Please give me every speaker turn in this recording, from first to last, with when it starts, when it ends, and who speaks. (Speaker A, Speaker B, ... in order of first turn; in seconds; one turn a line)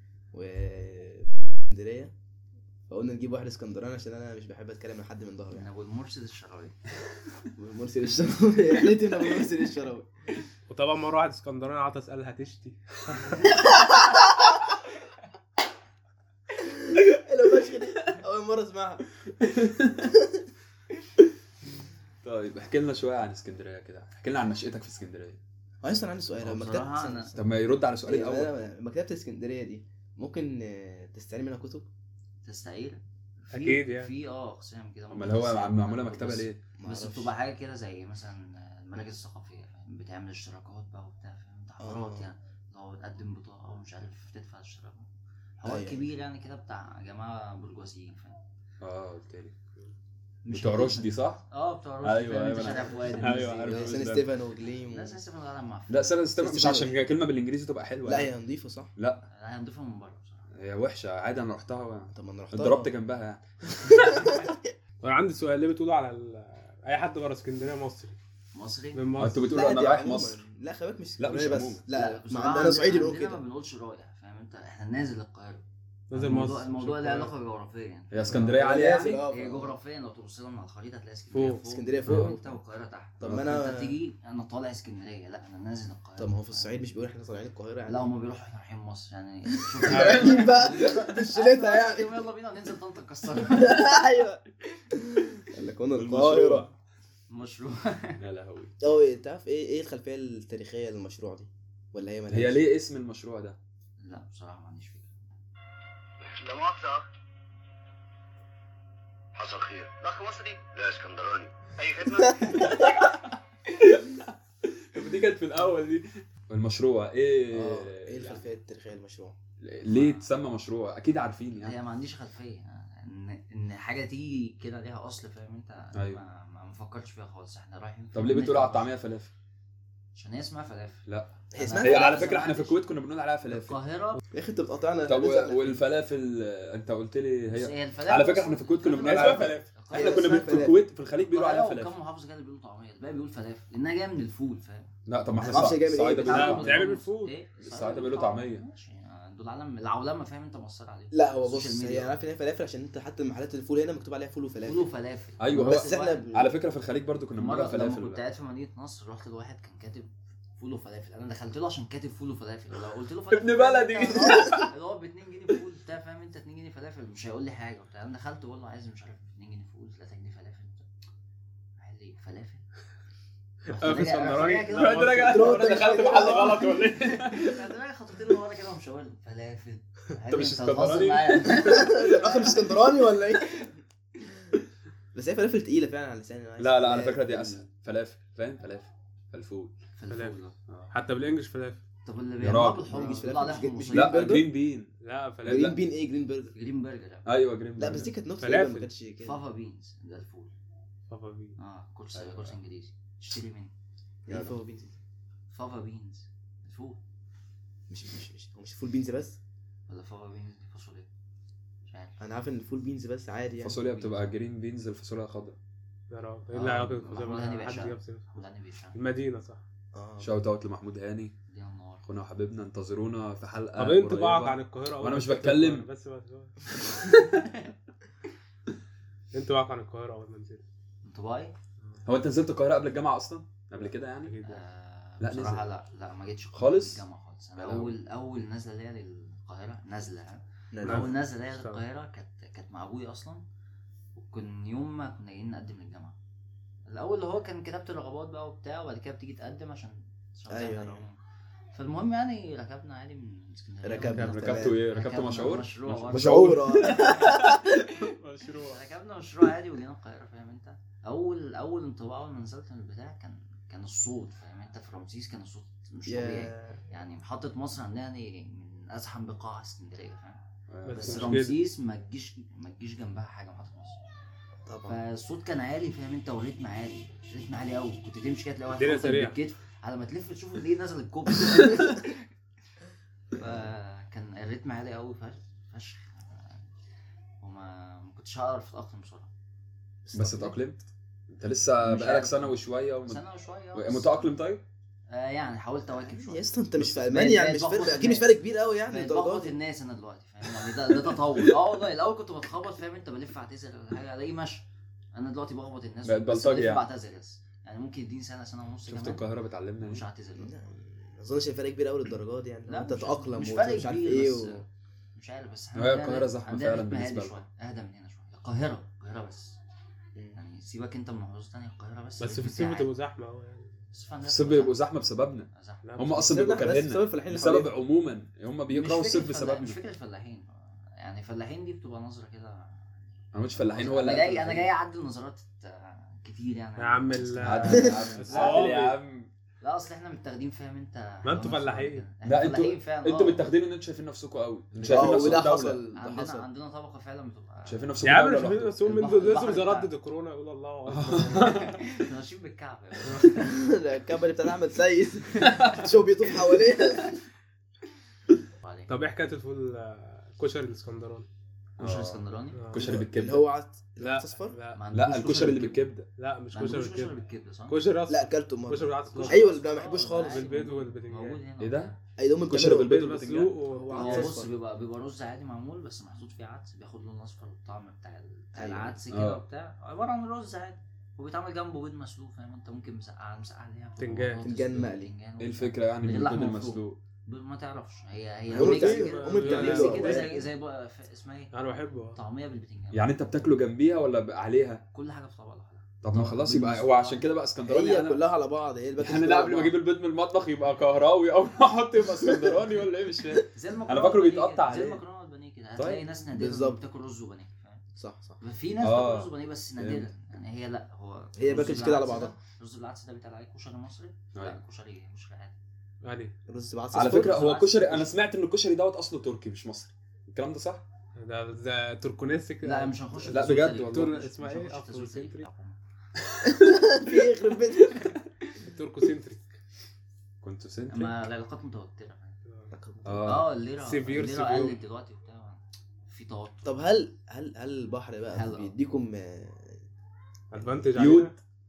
Speaker A: 0.3-2.1
Speaker A: 2.9-5.7
Speaker B: 5.5-6.8
Speaker A: 7.5-10.1
Speaker C: 10.7-13.4
Speaker A: 16.6-19.1
Speaker D: 19.4-20.1
Speaker A: 20.0-20.4
Speaker D: 22.2-25.4
Speaker A: 25.8-27.4
Speaker B: 26.4-27.4
Speaker D: 27.4-28.5
Speaker A: 28.0-31.9
Speaker B: 32.4-45.1
Speaker C: 33.5-34.1
Speaker D: 35.1-36.6
Speaker A: 36.8-37.3
Speaker A: 41.8-42.3
Speaker B: 45.6-48.4
Speaker A: 45.6-46.0
Speaker D: 48.8-49.5
Speaker B: 50.4-54.2
Speaker D: 50.5-51.4
Speaker D: 52.0-54.2
Speaker A: 53.0-55.2
Speaker C: 53.2-53.5
Speaker B: 54.8-56.1
Speaker D: 55.9-58.3
Speaker A: 56.4-57.0
Speaker A: 58.0-58.9
Speaker D: 59.0-59.2
Speaker B: 59.2-60.5
Speaker D: 60.5-64.3
Speaker A: 62.1-62.9
Speaker A: 63.8-64.6
Speaker C: 65.0-68.2
Speaker B: 68.5-69.1
Speaker C: 68.9-69.4
Speaker D: 69.2-70.4
Speaker A: 69.5-73.4
Speaker D: 71.2-71.8
Speaker B: 71.9-75.6
Speaker C: 76.1-77.3
Speaker B: 76.1-86.7
Speaker D: 78.1-79.2
Speaker A: 78.3-79.8
Speaker C: 81.3-81.6
Speaker A: 81.6-82.5
Speaker D: 82.0-82.4
Speaker A: 83.2-84.0
Speaker D: 83.2-83.5
Speaker A: 86.2-88.1
Speaker B: 87.8-94.0
Speaker A: 89.8-92.1
Speaker C: 89.9-90.4
Speaker A: 93.5-94.4
Speaker A: 94.9-96.7
Speaker D: 95.9-96.7
Speaker B: 97.3-98.2
Speaker D: 98.2-98.7
Speaker A: 98.8-102.7
Speaker D: 102.3-103.6
Speaker B: 104.0-105.1
Speaker E: 106.2-107.0
Speaker E: 109.3-112.6
Speaker A: 112.2-112.6
Speaker D: 112.5-113.1
Speaker D: 113.7-118.4
Speaker A: 117.5-119.3
Speaker D: 119.6-121.8
Speaker B: 119.8-120.2
Speaker B: 121.6-128.9
Speaker D: 125.9-126.2
Speaker D: 128.1-129.3
Speaker B: 130.1-132.8
Speaker D: 131.1-133.8
Speaker A: 131.5-132.3
Speaker B: 133.5-134.2
Speaker A: 134.3-135.8
Speaker D: 135.1-141.9
Speaker B: 137.5-140.7
Speaker C: 139.0-139.7
Speaker A: 139.9-140.8
Speaker B: 141.2-152.2
Speaker D: 145.1-146.9
Speaker A: 145.4-146.7
Speaker C: 146.3-147.3
Speaker D: 147.6-148.6
Speaker A: 151.1-154.9
Speaker B: 154.6-156.2
Speaker D: 155.4-158.2
Speaker A: 155.5-156.5
Speaker B: 157.3-170.9
Speaker D: 163.3-164.7
Speaker B: 171.8-172.6
Speaker C: 173.7-175.3
Speaker B: 173.7-182.7
Speaker D: 174.7-177.7
Speaker A: 175.1-176.7
Speaker D: 180.3-182.1
Speaker A: 181.4-183.8
Speaker A: 185.1-187.6
Speaker D: 186.6-189.7
Speaker B: 189.9-190.5
Speaker C: 190.1-190.4
Speaker D: 190.7-190.9
Speaker C: 190.9-191.8
Speaker B: 192.0-194.4
Speaker D: 192.4-192.9
Speaker A: 192.9-194.5
Speaker C: 193.0-193.2
Speaker D: 193.9-195.8
Speaker C: 195.0-195.7
Speaker A: 195.4-196.5
Speaker B: 196.5-197.2
Speaker D: 197.2-198.1
Speaker A: 197.8-199.4
Speaker C: 198.4-198.9
Speaker B: 199.2-200.5
Speaker C: 201.1-201.6
Speaker B: 201.6-203.7
Speaker D: 202.1-202.5
Speaker A: 204.2-204.9
Speaker D: 204.3-204.5
Speaker B: 205.5-207.0
Speaker A: 207.9-209.4
Speaker B: 209.9-211.1
Speaker B: 211.8-212.2
Speaker A: 212.2-213.8
Speaker D: 213.6-215.6
Speaker B: 213.7-214.3
Speaker C: 216.1-218.3
Speaker B: 216.5-219.0
Speaker C: 218.9-219.6
Speaker A: 219.9-220.3
Speaker D: 220.2-221.3
Speaker B: 221.5-222.0
Speaker D: 222.1-225.9
Speaker C: 223.8-226.6
Speaker D: 227.0-227.5
Speaker C: 229.3-230.6
Speaker B: 231.0-231.5
Speaker D: 232.0-234.3
Speaker C: 233.8-234.6
Speaker B: 234.4-243.4
Speaker D: 235.2-235.7
Speaker D: 236.5-237.0
Speaker D: 237.6-237.9
Speaker A: 240.7-241.2
Speaker C: 240.8-241.8
Speaker B: 244.1-246.1
Speaker B: 246.9-251.2
Speaker A: 250.5-251.0
Speaker B: 251.7-257.8
Speaker A: 253.8-254.8
Speaker D: 254.0-257.8
Speaker A: 256.1-257.6
Speaker C: 258.2-258.8
Speaker B: 258.6-270.4
Speaker A: 266.1-266.8
Speaker D: 270.7-271.4
Speaker C: 270.8-271.6
Speaker B: 270.9-274.0
Speaker A: 274.6-275.0
Speaker B: 274.9-282.3
Speaker C: 278.7-279.4
Speaker A: 283.3-283.7
Speaker B: 283.4-286.6
Speaker B: 287.4-289.3
Speaker A: 290.0-290.6
Speaker D: 290.1-293.2
Speaker B: 291.8-294.3
Speaker D: 293.7-294.6
Speaker B: 295.1-298.3
Speaker A: 295.9-299.5
Speaker B: 298.9-309.2
Speaker D: 301.1-301.5
Speaker D: 306.0-306.8
Speaker D: 308.9-310.1
Speaker B: 309.8-310.5
Speaker A: 310.4-314.6
Speaker B: 312.7-314.6
Speaker B: 315.1-319.6
Speaker D: 315.7-317.4
Speaker B: 320.3-322.9
Speaker C: 322.2-323.7
Speaker B: 323.9-324.8
Speaker D: 324.2-329.8
Speaker B: 325.5-326.0
Speaker C: 325.8-326.7
Speaker A: 326.2-327.7
Speaker B: 328.7-333.0
Speaker D: 333.3-334.7
Speaker B: 333.5-338.9
Speaker C: 336.8-339.0
Speaker D: 337.4-339.3
Speaker A: 337.7-338.1
Speaker B: 339.6-343.4
Speaker C: 341.2-342.1
Speaker D: 342.2-345.8
Speaker B: 344.8-348.0
Speaker A: 344.8-346.4
Speaker D: 347.6-348.8
Speaker C: 348.0-351.8
Speaker B: 348.8-349.9
Speaker D: 350.9-351.8
Speaker B: 351.3-353.5
Speaker C: 353.1-353.3
Speaker A: 353.3-357.2
Speaker B: 355.4-355.9
Speaker B: 356.4-357.0
Speaker B: 358.6-358.9
Speaker C: 358.9-361.3
Speaker B: 361.8-362.8
Speaker D: 361.8-363.5
Speaker C: 362.5-362.9
Speaker A: 362.8-364.6
Speaker C: 364.0-364.8
Speaker B: 364.7-365.9
Speaker D: 364.9-366.1
Speaker C: 366.2-367.1
Speaker B: 366.5-367.9
Speaker C: 367.7-369.5
Speaker A: 368.1-370.4
Speaker B: 369.1-372.0
Speaker C: 370.1-371.4
Speaker D: 371.6-371.9
Speaker A: 372.2-373.2
Speaker D: 372.5-373.6
Speaker C: 372.7-374.4
Speaker A: 373.7-374.5
Speaker B: 373.9-391.5
Speaker A: 378.5-379.0
Speaker D: 379.1-379.4
Speaker C: 384.0-384.4
Speaker A: 384.4-385.1
Speaker D: 385.4-387.0
Speaker A: 388.5-390.4
Speaker C: 388.6-390.3
Speaker C: 391.5-392.2
Speaker B: 392.1-393.1
Speaker D: 392.9-394.8
Speaker B: 394.9-397.3
Speaker D: 396.0-398.2
Speaker A: 397.6-399.8
Speaker D: 399.0-405.0
Speaker B: 403.5-407.8
Speaker D: 405.8-406.0
Speaker A: 406.3-406.8
Speaker A: 407.9-408.4
Speaker B: 408.4-415.5
Speaker D: 408.8-410.1
Speaker A: 411.4-412.4
Speaker D: 414.3-414.6
Speaker C: 416.0-416.3
Speaker A: 416.5-417.5
Speaker D: 416.9-420.8
Speaker B: 416.9-418.1
Speaker C: 421.2-425.4
Speaker B: 422.6-425.8
Speaker D: 423.3-424.1
Speaker A: 426.4-428.1
Speaker C: 428.6-429.5
Speaker D: 430.4-431.1
Speaker B: 430.9-432.4
Speaker A: 432.7-433.4
Speaker D: 433.0-433.5
Speaker B: 433.2-436.8
Speaker C: 433.8-434.8
Speaker A: 436.6-439.8
Speaker B: 438.3-438.7
Speaker C: 440.5-441.3
Speaker D: 440.9-441.4